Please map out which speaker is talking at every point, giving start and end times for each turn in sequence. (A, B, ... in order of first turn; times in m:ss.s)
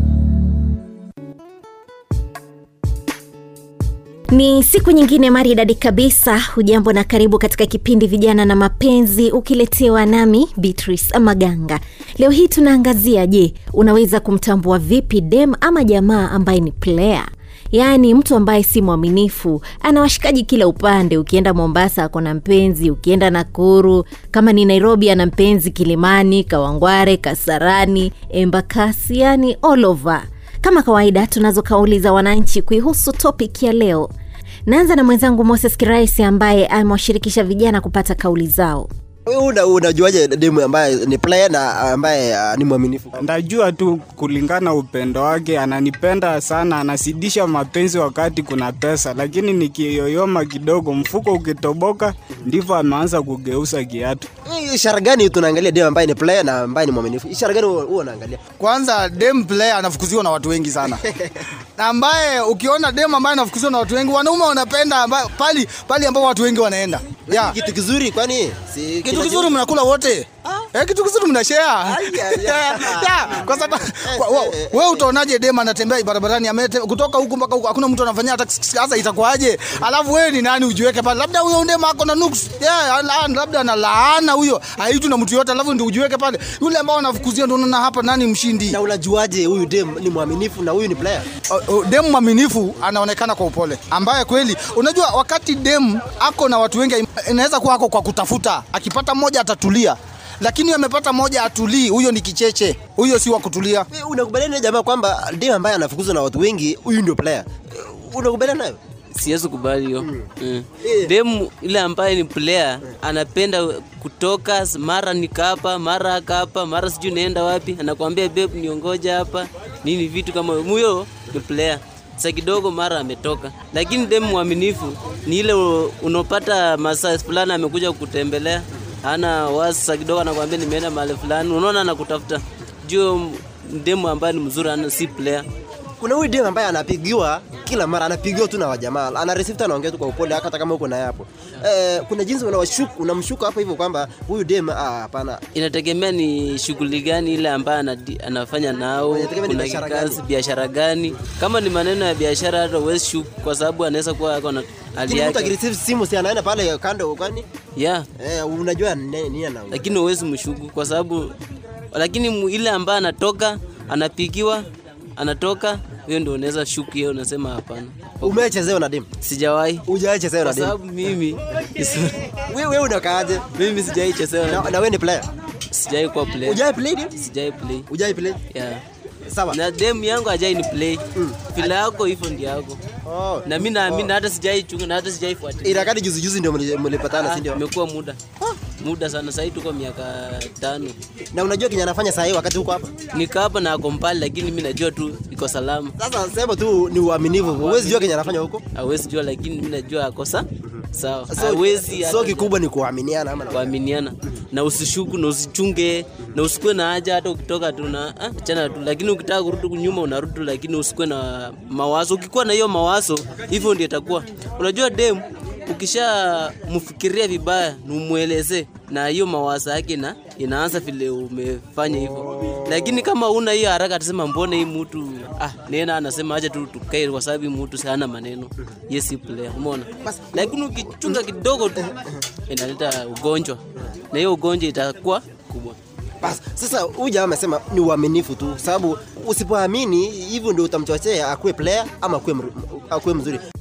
0:04.3-0:34.1 A
0:34.7-0:38.9 A
0:39.2-0:43.2 B
0:43.3-0:54.2 C
0:54.4-0:58.4 B
0:58.6-1:00.9 D
1:00.8-1:01.4 B
1:01.8-1:07.5 D
1:07.1-1:09.6 B
1:09.2-1:11.9 D
1:11.9-1:15.1 B
1:12.5-1:28.8 D
1:28.7-1:31.2 B
1:31.5-1:43.8 D
1:43.9-1:48.8 B
1:49.1-2:15.4 E
1:50.0-1:50.3 B
1:50.8-1:51.1 B
2:16.0-2:25.4 B
2:25.5-2:35.6 E
2:29.1-2:30.2 B
2:35.0-2:37.4 B
2:37.8-2:38.0 E
2:38.2-2:39.8 B
2:39.7-2:41.3 E
2:41.9-2:44.6 E
2:45.2-2:48.5 E
2:48.2-2:49.1 B
2:49.2-2:49.9 E
2:49.9-2:50.7 B
2:50.4-2:52.1 E
2:52.5-2:53.4 B
2:53.5-2:54.7 E
2:54.5-2:55.3 B
2:55.7-2:56.6 E
2:56.4-2:57.1 B
2:57.1-2:57.8 E
2:57.9-2:58.4 B
2:58.5-2:58.8 E
2:59.3-2:59.5 B
2:59.5-3:02.8 E
3:01.1-3:01.7 B
3:03.0-3:04.1 B
3:03.4-3:05.9 E
3:05.6-3:07.6 B
3:07.1-3:08.2 E
3:08.8-3:10.9 E
3:11.3-3:12.9 B
3:13.1-3:15.9 E
3:16.0-3:18.6 B
3:17.4-3:22.6 E
3:21.3-3:23.7 B
3:23.5-3:51.8 E
3:50.0-3:51.2 B
3:52.5-3:53.6 E
3:54.1-3:55.8 E
3:56.2-4:03.4 B